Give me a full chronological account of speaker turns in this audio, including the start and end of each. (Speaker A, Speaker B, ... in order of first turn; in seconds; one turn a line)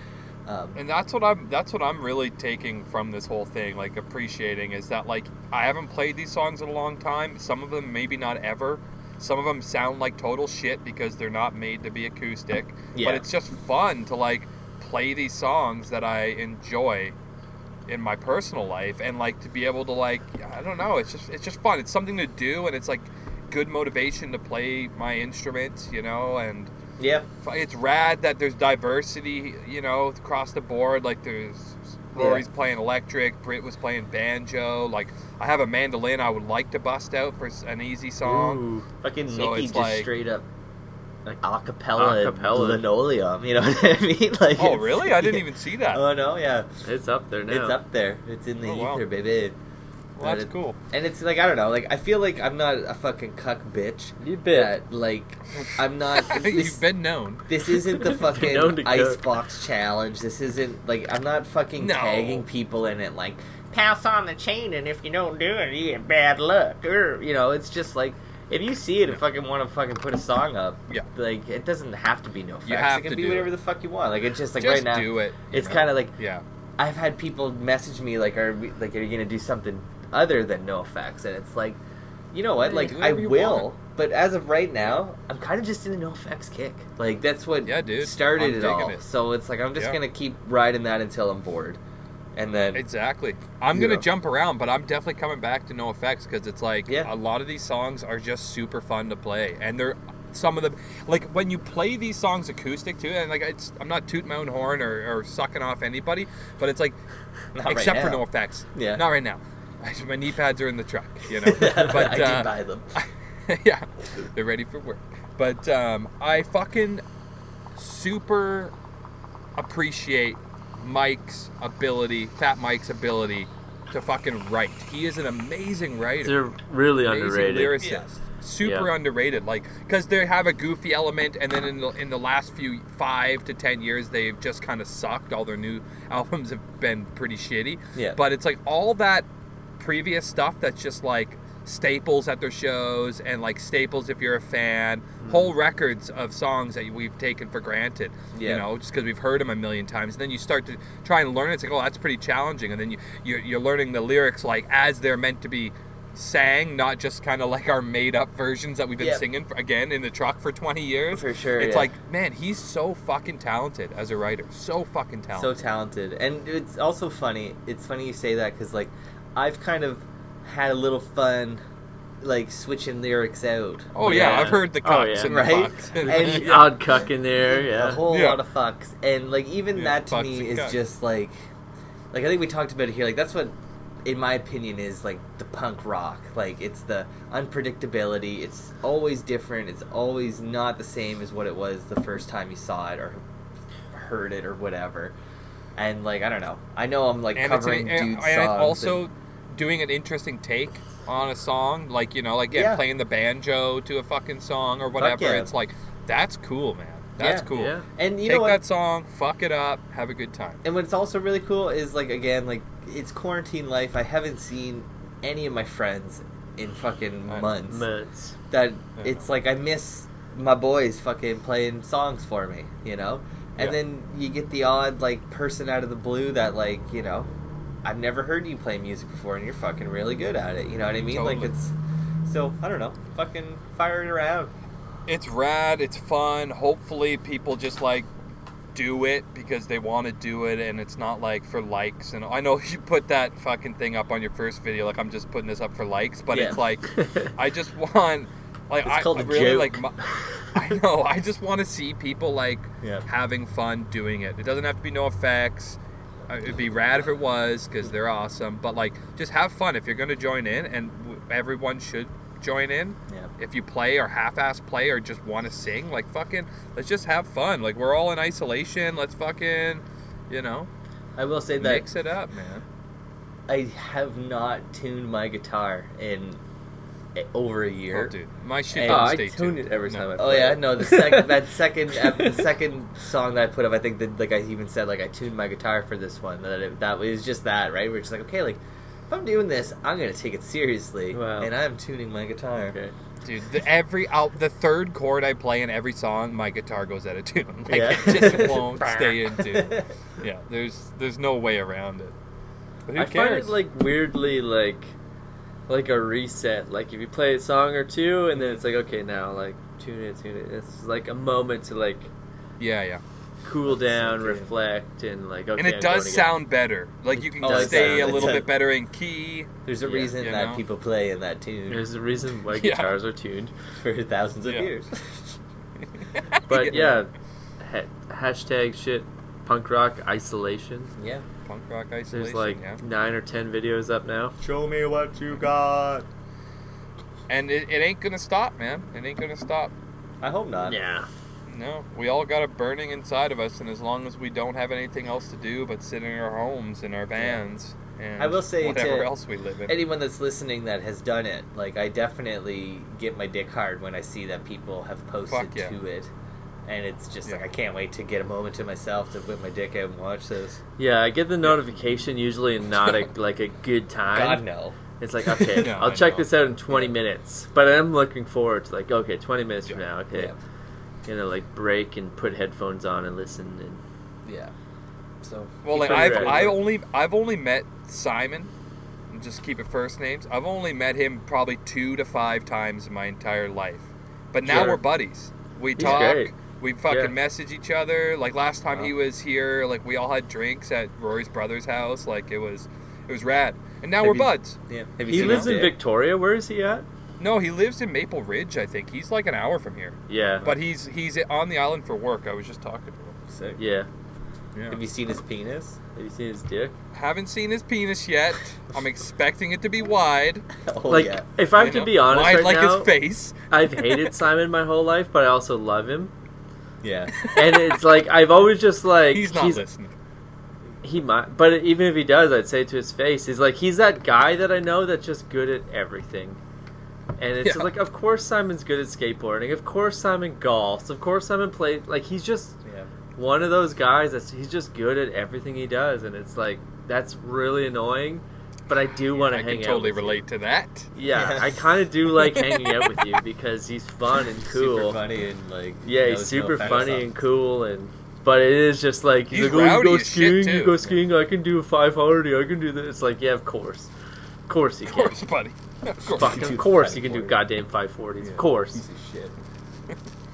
Speaker A: 0.5-0.8
Speaker B: 0.7-17.1
Speaker A: 12.9-13.2
Speaker B: 17.9-26.7
Speaker A: 27.0-27.3
Speaker B: 27.4-38.6
Speaker A: 32.1-32.4
Speaker C: 38.2-38.9
Speaker A: 39.0-40.5
Speaker B: 39.3-40.1
Speaker A: 41.2-46.7
Speaker C: 42.0-42.8
Speaker B: 44.6-46.0
Speaker C: 46.8-47.8
Speaker A: 47.5-49.6
Speaker B: 48.6-49.0
Speaker B: 50.1-50.8
Speaker A: 50.2-56.8
Speaker C: 54.2-54.7
Speaker B: 55.6-57.4
Speaker A: 57.5-76.1
Speaker C: 58.0-59.2
Speaker B: 61.8-62.4
Speaker B: 72.7-73.5
Speaker B: 74.6-76.4
Speaker A: 76.8-81.8
Speaker A: 82.3-91.8
Speaker B: 82.6-83.7
Speaker B: 87.6-89.0
Speaker A: 92.3-92.8
Speaker B: 92.7-107.0
Speaker A: 93.7-94.0
Speaker A: 107.5-108.2
Speaker B: 107.6-117.0
Speaker A: 108.7-109.0
Speaker A: 111.4-112.9
Speaker B: 117.7-118.7
Speaker B: 119.5-126.4
Speaker C: 126.2-127.8
Speaker B: 127.0-139.2
Speaker C: 128.6-128.9
Speaker B: 139.8-165.5
Speaker A: 148.3-148.6
Speaker A: 159.0-159.2
Speaker A: 161.1-161.9
Speaker A: 165.3-171.6
Speaker A: 172.2-174.6
Speaker B: 173.9-176.8
Speaker C: 174.0-178.0
Speaker A: 175.2-181.4
Speaker B: 178.1-178.4
Speaker B: 179.7-180.8
Speaker A: 182.1-193.2
Speaker A: 193.9-195.1
Speaker A: 195.8-199.0
Speaker B: 197.3-210.6
Speaker A: 202.5-202.8
Speaker A: 205.0-205.5
Speaker A: 207.2-208.6
Speaker C: 207.5-207.8
Speaker A: 210.6-217.8
Speaker C: 217.7-218.3
Speaker A: 218.5-227.3
Speaker B: 219.0-219.2
Speaker A: 227.8-231.7
Speaker B: 231.1-231.5
Speaker A: 232.2-234.5
Speaker B: 235.1-238.1
Speaker B: 238.7-270.7
Speaker A: 246.3-246.6
Speaker C: 247.0-247.3
Speaker A: 248.8-249.8
Speaker A: 271.2-271.9
Speaker B: 271.6-272.6
Speaker A: 273.5-276.4
Speaker A: 277.1-278.1
Speaker B: 277.9-280.1
Speaker A: 278.7-279.2
Speaker C: 278.9-282.4
Speaker A: 280.2-292.8
Speaker C: 291.1-291.5
Speaker B: 293.2-302.1
Speaker A: 297.7-299.9
Speaker B: 302.9-303.5
Speaker C: 302.9-304.9
Speaker C: 305.7-312.1
Speaker A: 308.4-308.6
Speaker B: 312.6-313.0
Speaker C: 313.4-316.3
Speaker A: 313.7-314.5
Speaker B: 315.6-319.5
Speaker C: 317.2-318.4
Speaker A: 317.4-318.5
Speaker A: 319.6-321.9
Speaker C: 319.8-320.1
Speaker B: 320.2-320.6
Speaker C: 321.7-323.5
Speaker B: 322.5-322.9
Speaker A: 323.8-325.0
Speaker B: 324.4-324.7
Speaker B: 326.1-326.9
Speaker C: 326.5-330.9
Speaker A: 326.7-327.0
Speaker A: 331.0-331.2
Speaker B: 331.4-332.8
Speaker C: 332.1-334.3
Speaker A: 334.4-336.1
Speaker B: 337.3-339.7
Speaker A: 340.2-340.8
Speaker C: 340.6-341.1
Speaker B: 341.5-349.8
Speaker A: 348.2-349.1
Speaker A: 349.7-356.1
Speaker B: 355.3-355.8
Speaker A: 356.6-360.6
Speaker C: 360.8-364.4
Speaker A: 364.1-364.8
Speaker C: 365.0-370.3
Speaker A: 365.4-365.7
Speaker B: 365.6-366.3
Speaker C: 371.1-373.8
Speaker A: 374.2-374.5
Speaker A: 375.2-376.5
Speaker B: 375.6-378.5
Speaker C: 375.7-376.6
Speaker B: 379.1-394.6
Speaker C: 384.4-384.8
Speaker C: 385.8-386.3
Speaker C: 386.9-387.1
Speaker A: 394.0-395.8
Speaker C: 395.1-396.9
Speaker B: 395.1-395.6
Speaker B: 397.2-403.2
Speaker C: 400.1-400.5
Speaker A: 403.3-403.6
Speaker C: 403.6-403.9
Speaker B: 404.5-404.8
Speaker A: 404.7-405.8
Speaker C: 405.9-406.7
Speaker B: 406.9-410.5
Speaker A: 410.6-411.2
Speaker C: 410.9-412.9
Speaker B: 411.6-414.0
Speaker C: 413.5-416.1
Speaker A: 416.8-417.1
Speaker B: 417.2-417.6
Speaker C: 417.3-419.6
Speaker B: 419.0-419.9
Speaker C: 420.8-426.4
Speaker C: 427.2-432.6
Speaker B: 427.4-427.7
Speaker A: 432.6-432.9
Speaker C: 433.1-440.2
Speaker B: 439.1-440.9
Speaker C: 440.9-445.0
Speaker A: 441.1-441.6
Speaker B: 442.2-442.6
Speaker A: 444.4-447.1
Speaker C: 445.8-453.9
Speaker B: 446.6-446.9
Speaker B: 449.3-450.7
Speaker C: 454.5-455.2
Speaker B: 454.9-456.5
Speaker A: 456.1-457.4
Speaker C: 456.1-458.9
Speaker A: 458.7-459.3